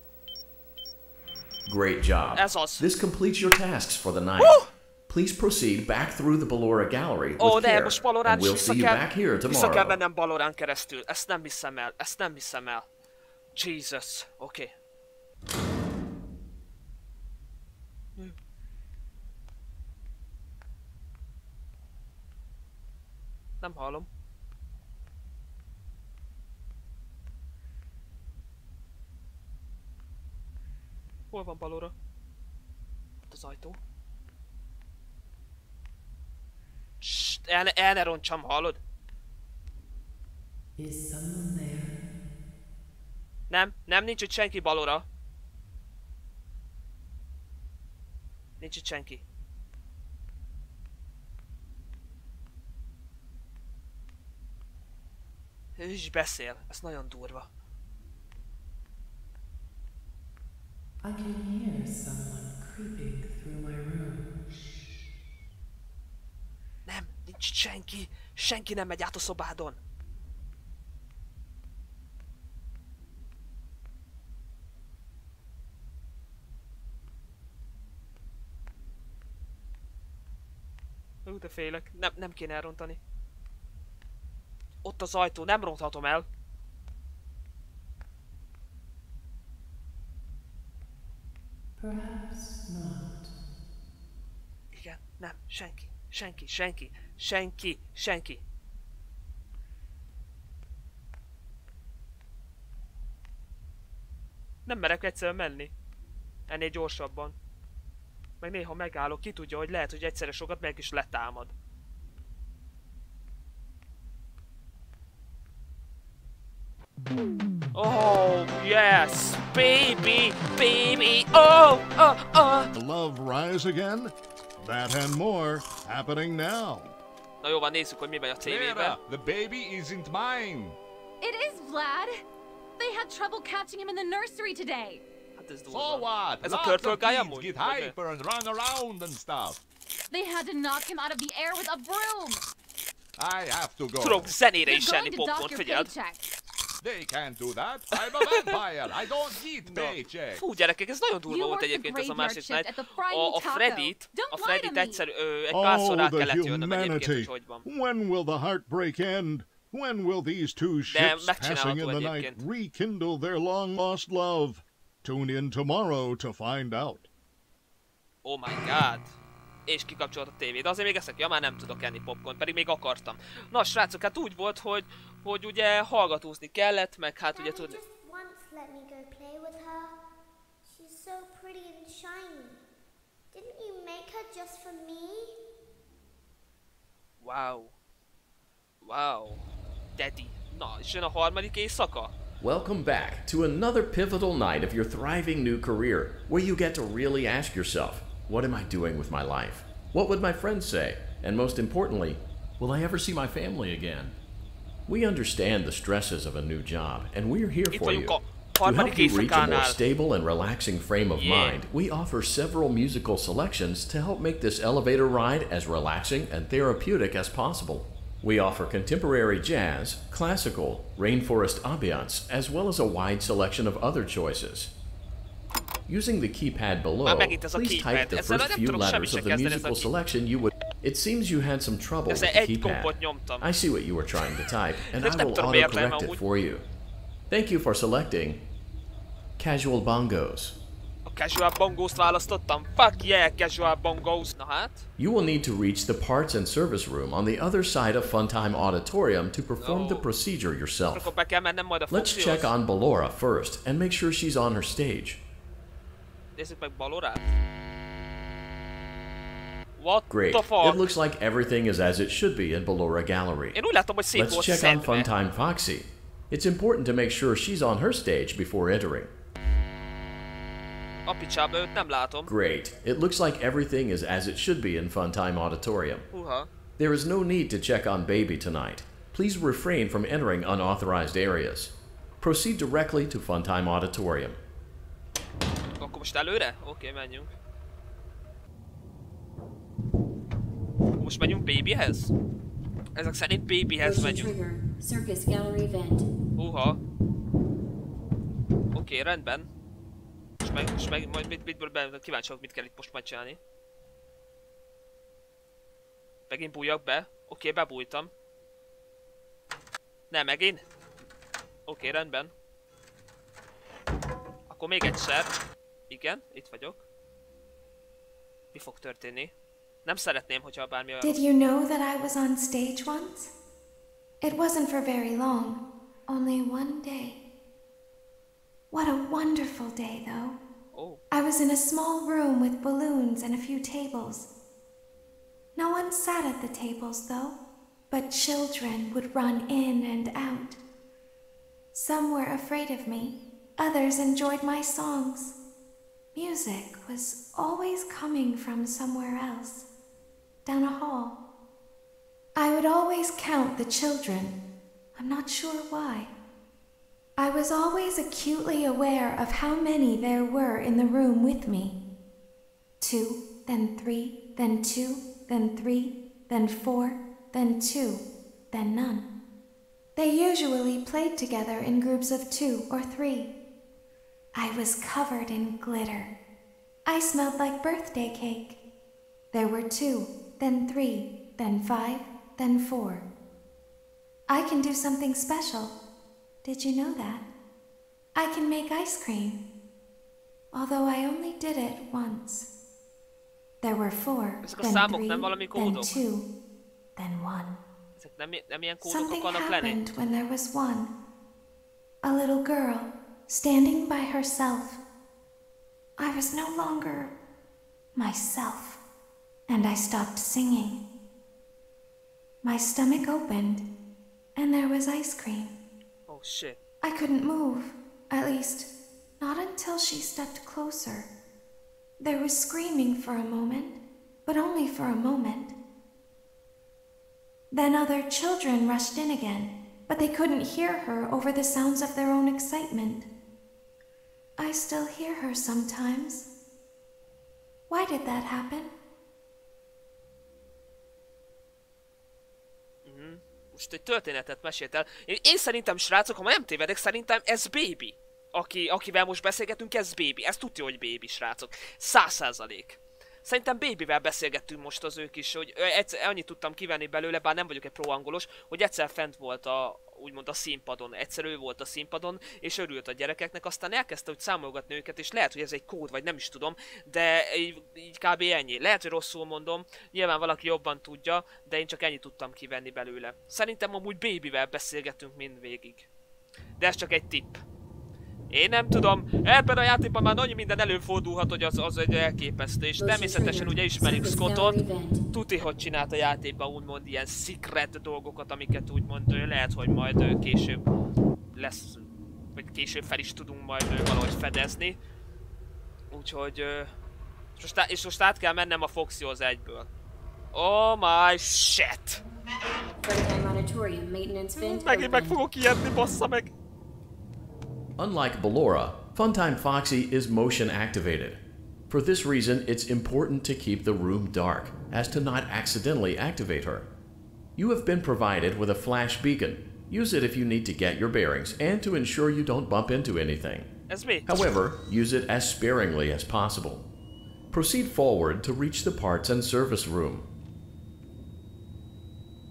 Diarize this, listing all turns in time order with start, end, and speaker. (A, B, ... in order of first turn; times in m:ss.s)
0:01.7-0:10.0 A
0:02.4-0:02.8 B
0:04.4-0:04.7 B
0:07.4-0:12.9 B
0:13.6-0:14.7 B
0:23.6-0:24.1 B
0:31.3-0:31.9 B
0:33.3-0:33.8 B
0:37.0-0:38.8 B
0:40.8-0:42.0 C
0:43.5-0:45.1 B
0:48.6-0:49.2 B
0:55.8-0:57.5 B
1:01.0-1:04.4 C
1:06.9-1:09.8 B
1:21.2-1:23.0 B
1:24.8-1:26.3 B
1:31.8-1:33.3 C
1:34.7-1:38.4 B
1:44.7-1:45.7 B
1:46.5-1:47.4 B
1:48.4-1:51.5 B
1:57.7-2:02.7 B
2:02.7-2:07.0 D
2:07.4-2:09.0 B
2:08.4-2:10.8 E
2:11.2-2:12.2 F
2:12.8-2:15.0 F
2:15.4-2:18.0 B
2:15.7-2:19.6 E
2:20.1-2:22.4 F
2:23.2-2:24.4 E
2:24.0-2:25.9 B
2:24.7-2:26.3 F
2:26.8-2:30.4 E
2:29.6-2:37.7 B
2:31.3-2:35.0 F
2:35.5-2:47.1 D
2:40.9-2:42.4 B
2:48.2-2:49.1 B
2:49.7-2:57.8 B
2:57.3-3:00.0 G
3:00.6-3:02.6 G
3:03.3-3:05.3 G
3:07.2-3:07.7 B
3:08.8-3:09.4 B
3:10.0-3:12.1 B
3:12.4-3:24.2 A
3:24.9-3:44.7 A
3:27.7-3:29.8 B
3:31.1-3:31.6 B
3:45.9-3:56.6 A
3:47.0-3:49.9 B
3:52.1-3:53.5 B
3:54.9-3:56.2 B
3:57.3-3:58.4 A
3:59.4-4:00.6 A
4:01.0-4:04.9 B
4:05.0-4:11.1 A
4:09.6-4:10.1 B
4:10.9-4:12.5 B
4:11.9-4:15.2 A
4:16.4-4:17.3 B
4:19.8-4:20.8 B
4:20.1-4:23.6 A
4:23.5-4:25.1 B
4:24.1-4:29.1 A
4:31.0-4:32.3 B
4:32.3-4:36.0 A
4:36.1-4:36.5 B
4:36.8-4:44.4 A
4:45.8-4:47.3 B
4:51.0-4:52.1 B
4:53.0-4:54.3 B
4:53.8-4:56.1 H
4:56.4-4:56.8 B
4:58.7-4:59.5 B
5:00.4-5:03.4 B
5:06.3-5:08.1 B
5:10.1-5:10.6 B
5:11.7-5:12.3 B
5:14.5-5:15.3 B
5:15.9-5:16.8 B
5:18.5-5:19.3 B
5:19.8-5:21.2 B
5:21.0-5:23.3 I
5:24.2-5:27.2 I
5:28.7-5:30.4 I
5:30.7-5:31.0 B
5:31.1-5:34.3 I
5:35.6-5:37.4 I
5:37.9-5:40.6 I
5:41.7-5:45.4 I
5:46.1-5:49.7 I
5:50.4-5:51.2 I
5:52.4-5:54.4 I
5:55.0-5:56.1 I
5:57.2-6:01.8 I
6:02.8-6:09.1 I
6:10.0-6:13.3 I
6:14.3-6:16.1 I
6:16.9-6:18.6 I
6:19.3-6:23.0 I
6:24.3-6:25.8 I
6:26.4-6:27.3 I
6:28.2-6:29.4 I
6:30.5-6:32.5 I
6:33.6-6:36.3 I
6:34.4-6:36.0 B
6:37.0-6:37.6 I
6:38.0-6:40.0 B
6:38.8-6:40.9 I
6:42.0-6:44.8 I
6:46.0-6:47.1 I
6:48.0-6:48.8 I
6:49.5-6:50.8 I
6:52.4-6:53.6 I
6:54.4-6:55.6 I
6:56.1-6:56.6 B
6:56.8-7:01.1 I
7:02.0-7:05.5 I
7:07.5-7:13.1 I
7:14.4-7:16.3 I
7:17.7-7:18.7 I
7:22.8-7:55.9 B
7:56.6-7:57.4 B
7:58.3-8:04.6 B
8:02.8-8:05.0 H
8:05.1-8:10.6 B
8:11.3-8:14.8 B
8:15.9-8:16.7 B
8:17.4-8:19.7 B
8:20.3-8:22.0 B
8:22.8-8:25.2 H
8:24.4-8:26.3 B
8:27.8-8:36.7 A
8:37.4-8:43.5 A
8:43.7-8:44.1 B
8:44.1-8:46.6 A
8:47.3-8:50.1 A